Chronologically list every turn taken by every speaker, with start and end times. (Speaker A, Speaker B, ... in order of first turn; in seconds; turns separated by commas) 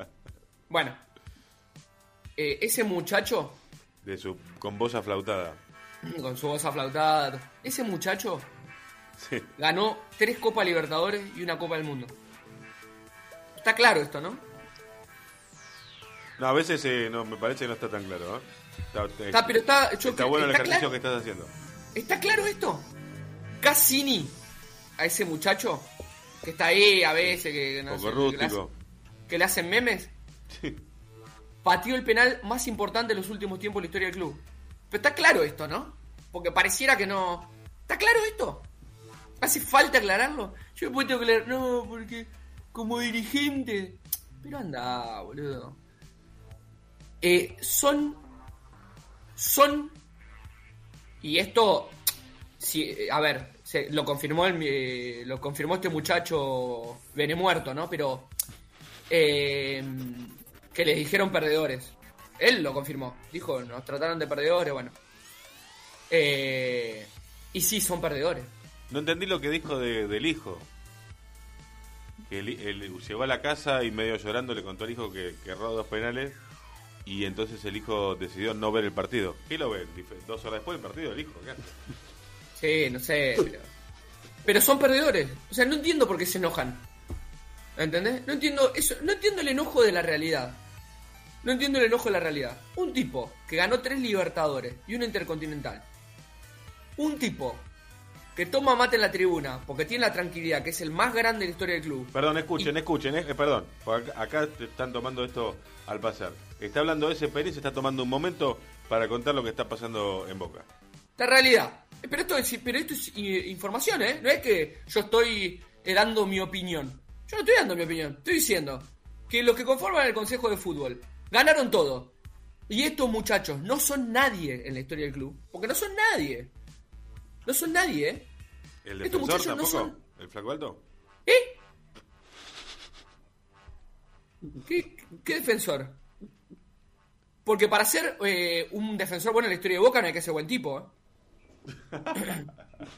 Speaker A: 0.7-1.0, Speaker A: 2.4-3.6, Speaker B: 4.0-5.6, Speaker A: 6.0-8.5, Speaker B: 9.2-9.5, Speaker A: 9.6-12.2, Speaker A: 13.6-14.4, Speaker B: 16.4-21.5, Speaker A: 19.3-20.9, Speaker A: 21.9-22.9, Speaker A: 23.6-24.4, Speaker A: 25.0-25.9, Speaker A: 26.4-28.6, Speaker B: 27.2-28.7, Speaker A: 29.3-30.1, Speaker B: 30.5-30.8, Speaker A: 31.6-38.7, Speaker A: 39.4-45.8, Speaker A: 47.2-48.2, Speaker A: 49.4-50.0, Speaker A: 51.2-52.0, Speaker A: 52.6-58.3, Speaker A: 59.1-65.0, Speaker A: 66.1-68.5, Speaker B: 68.9-70.7, Speaker B: 72.3-76.4, Speaker B: 77.0-81.7, Speaker A: 82.6-83.7, Speaker A: 84.4-86.8, Speaker A: 87.8-90.6, Speaker A: 91.4-95.8, Speaker A: 97.0-97.7, Speaker A: 98.3-102.7, Speaker B: 102.1-110.7, Speaker A: 111.2-122.1, Speaker A: 122.7-126.5, Speaker A: 127.4-128.3, Speaker B: 128.8-130.8, Speaker A: 129.0-129.9, Speaker A: 131.2-131.6, Speaker A: 134.7-136.0, Speaker A: 137.4-140.9